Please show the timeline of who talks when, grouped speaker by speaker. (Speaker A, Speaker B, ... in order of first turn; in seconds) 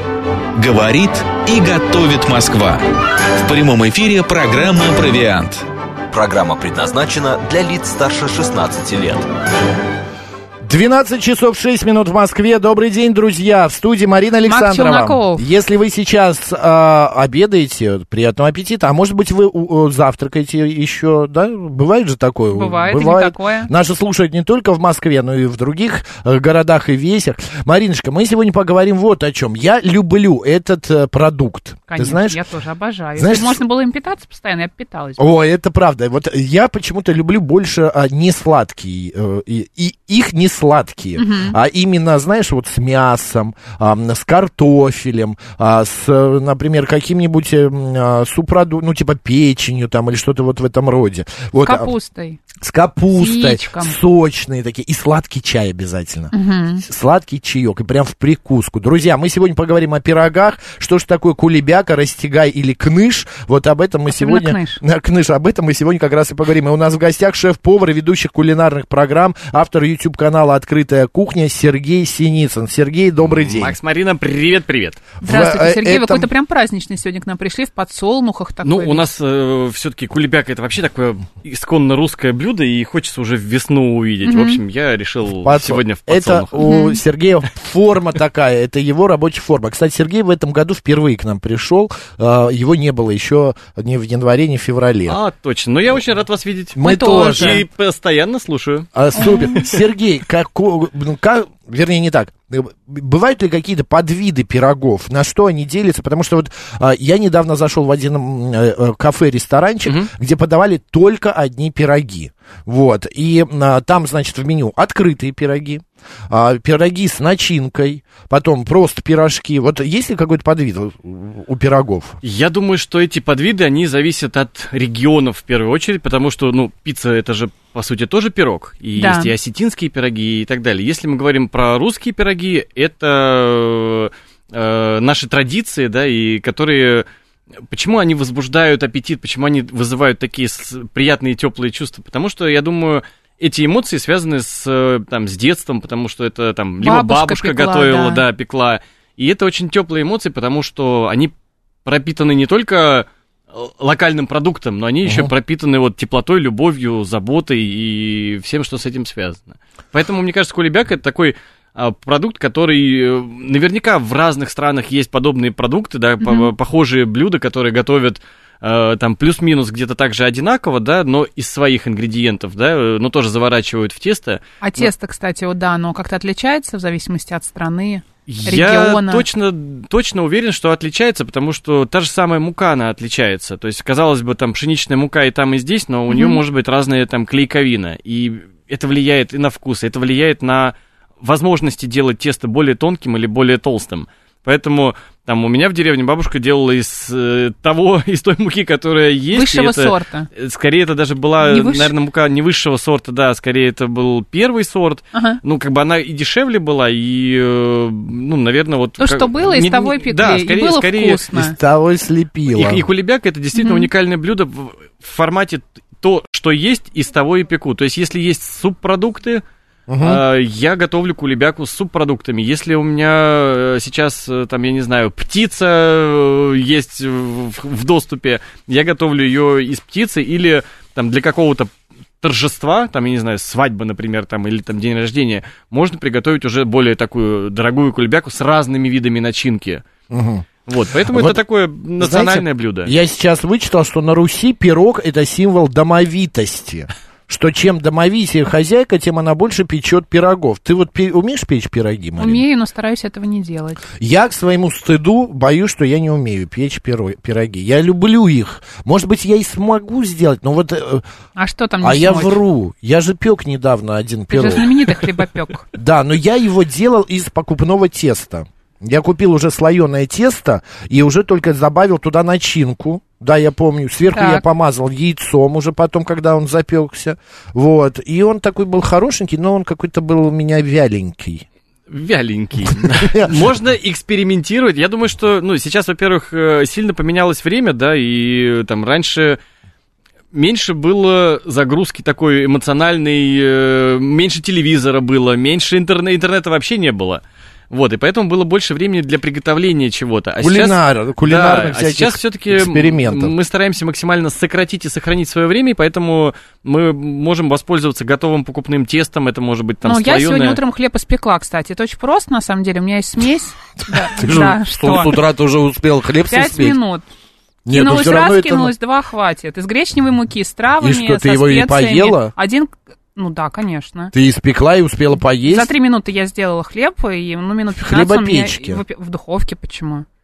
Speaker A: 0.6-2.8, 3.4-5.7
Speaker B: 6.1-9.3
Speaker C: 10.6-32.4, 33.2-33.6, 35.2-51.9, 52.6-73.7, 75.2-76.3, 85.4-95.2, 96.8-97.6, 99.0-122.2, 155.1-155.3, 211.3-212.8, 219.9-220.2, 240.1-240.5, 241.1-241.4, 242.0-252.4, 254.0-261.1, 261.8-264.6, 265.7-281.4, 282.8-283.3, 300.4-303.3, 314.1-316.8, 317.7-318.7, 320.8-322.3, 324.1-325.7, 327.8-328.8
Speaker D: 14.5-15.4, 22.5-23.7, 31.9-35.2, 41.2-41.6, 51.6-52.4, 53.1-54.0, 56.3-56.8, 64.1-64.8, 75.2-79.0, 84.3-84.6, 86.6-87.0, 96.8-97.6, 99.2-99.5, 129.0-129.3, 146.8-148.2, 166.2-166.5, 174.6-179.2, 186.1-186.4, 199.3-200.3, 201.4-201.9, 205.1-205.4, 209.0-211.6, 213.6-213.9, 252.2-253.8, 261.4-262.4, 264.3-265.7, 274.1-274.4, 309.8-315.2, 316.3-317.1, 317.7-324.1, 325.5-330.1
Speaker E: 73.4-75.1, 78.6-86.5, 95.1-98.9, 109.8-110.1, 122.2-137.1, 137.7-151.3, 151.8-174.9, 178.3-211.2, 212.5-219.4, 220.0-231.7, 232.2-239.8, 240.7-242.9, 281.9-289.4, 290.3-310.6